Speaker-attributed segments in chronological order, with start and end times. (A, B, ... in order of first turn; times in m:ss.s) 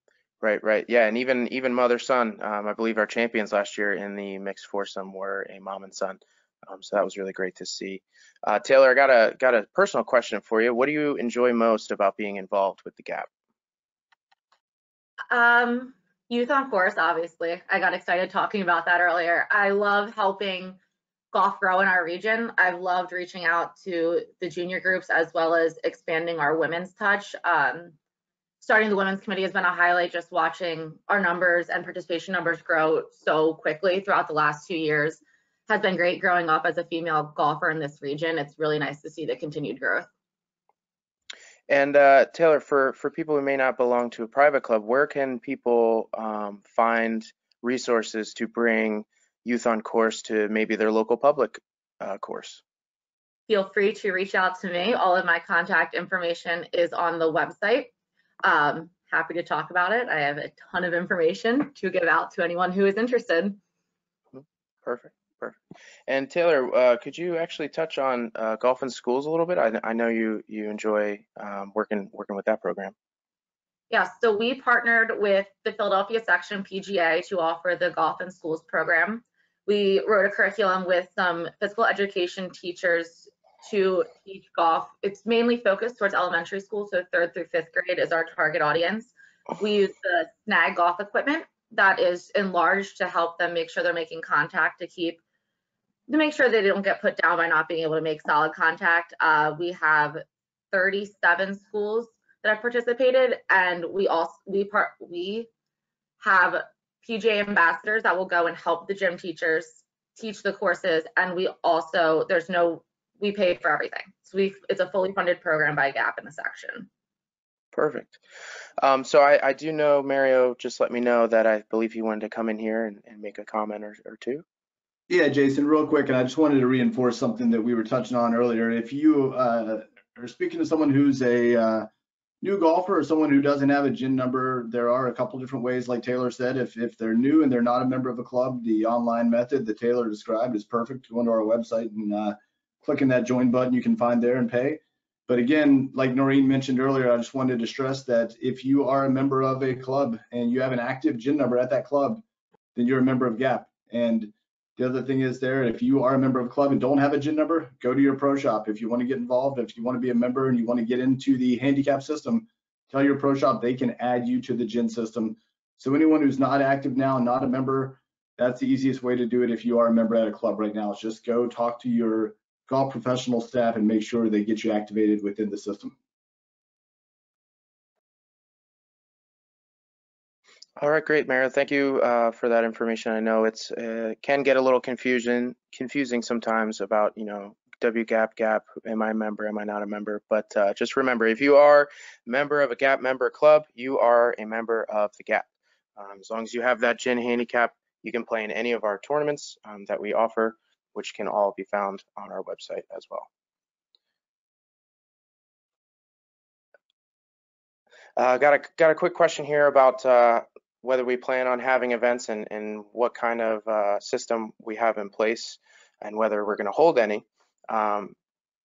0:00.4-0:13.3 A
0:15.3-0:20.8 B
0:21.3-0:28.0 B
0:28.6-0:40.1 B
0:41.7-0:52.6 A
0:53.5-0:57.9 B
0:58.4-1:03.6 B
1:04.3-1:12.9 A
1:13.9-1:35.2 B
1:36.1-1:45.5 B
1:46.2-1:56.9 B
1:57.7-1:58.2 A
1:58.8-2:04.4 A
2:05.1-2:11.9 C
2:12.4-2:32.2 C
2:32.8-2:56.0 C
3:00.8-3:23.3 A
3:28.2-3:38.2 A